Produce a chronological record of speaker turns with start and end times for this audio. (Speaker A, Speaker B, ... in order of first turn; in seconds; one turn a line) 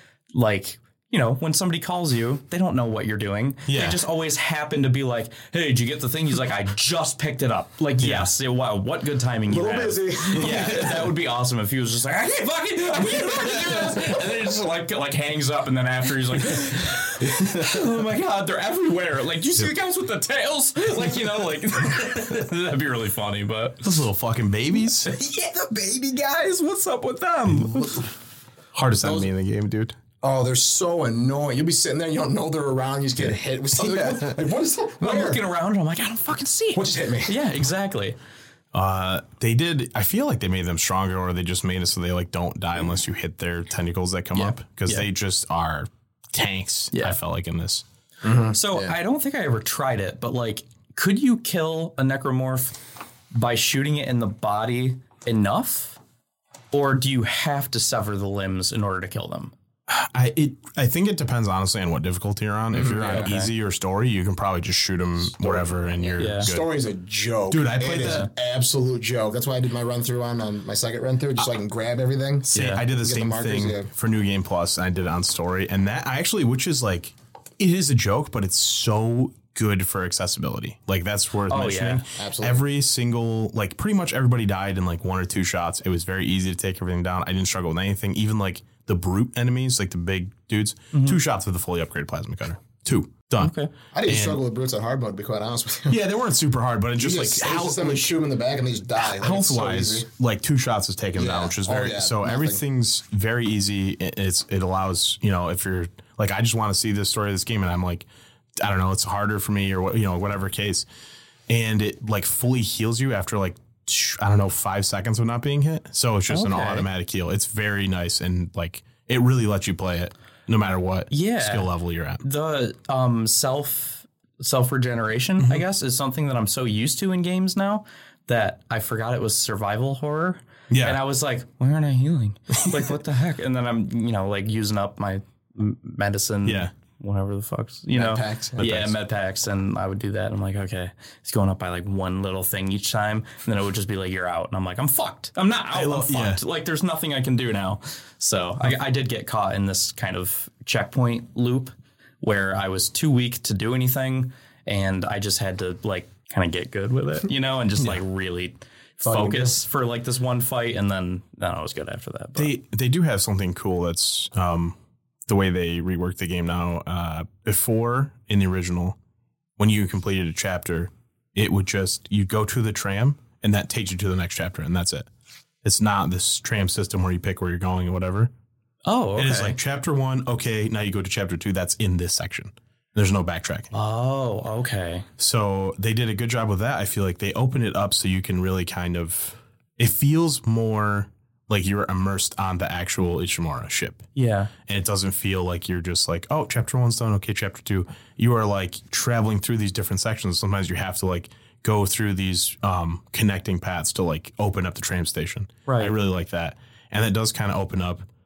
Speaker A: 0.3-23.9
Speaker B: 3.7-4.0
Speaker B: 8.0-8.3
Speaker C: 9.5-11.2
Speaker B: 23.8-25.1
Speaker A: 25.0-28.1
Speaker B: 27.5-27.8
Speaker B: 28.7-30.0
Speaker C: 29.0-29.3
Speaker C: 30.2-35.4
Speaker A: 35.0-38.2
Speaker C: 36.7-37.4
Speaker B: 38.7-47.8
Speaker A: 44.3-45.0
Speaker A: 46.9-47.2
Speaker C: 48.2-48.9
Speaker A: 48.5-52.8
Speaker A: 53.3-56.0
Speaker A: 56.7-59.5
Speaker B: 59.9-66.7
Speaker C: 62.7-63.3
Speaker A: 63.1-63.5
Speaker C: 65.3-73.9
Speaker A: 66.2-66.5
Speaker B: 67.5-68.3
Speaker A: 72.5-72.8
Speaker B: 72.5-93.5
Speaker A: 81.5-82.0
Speaker C: 82.2-82.6
Speaker A: 90.9-91.2
Speaker A: 93.4-93.7
Speaker C: 93.9-96.0
Speaker B: 94.1-94.4
Speaker B: 95.9-98.1
Speaker C: 97.0-100.1
Speaker B: 99.0-110.8
Speaker C: 101.1-102.6
Speaker B: 111.5-122.2
Speaker A: 116.3-116.9
Speaker A: 121.1-162.5
Speaker B: 130.7-131.0
Speaker B: 136.4-136.7
Speaker C: 137.9-138.7
Speaker B: 138.6-139.0
Speaker B: 145.7-146.4
Speaker C: 159.0-159.6
Speaker B: 162.3-164.8
Speaker B: 165.3-168.9
Speaker B: 169.6-175.1
Speaker B: 175.6-178.3
Speaker A: 178.8-179.6
Speaker B: 179.2-183.7
Speaker A: 183.7-185.1
Speaker B: 185.2-194.1
Speaker A: 194.2-194.5
Speaker B: 194.7-208.1
Speaker A: 205.7-205.9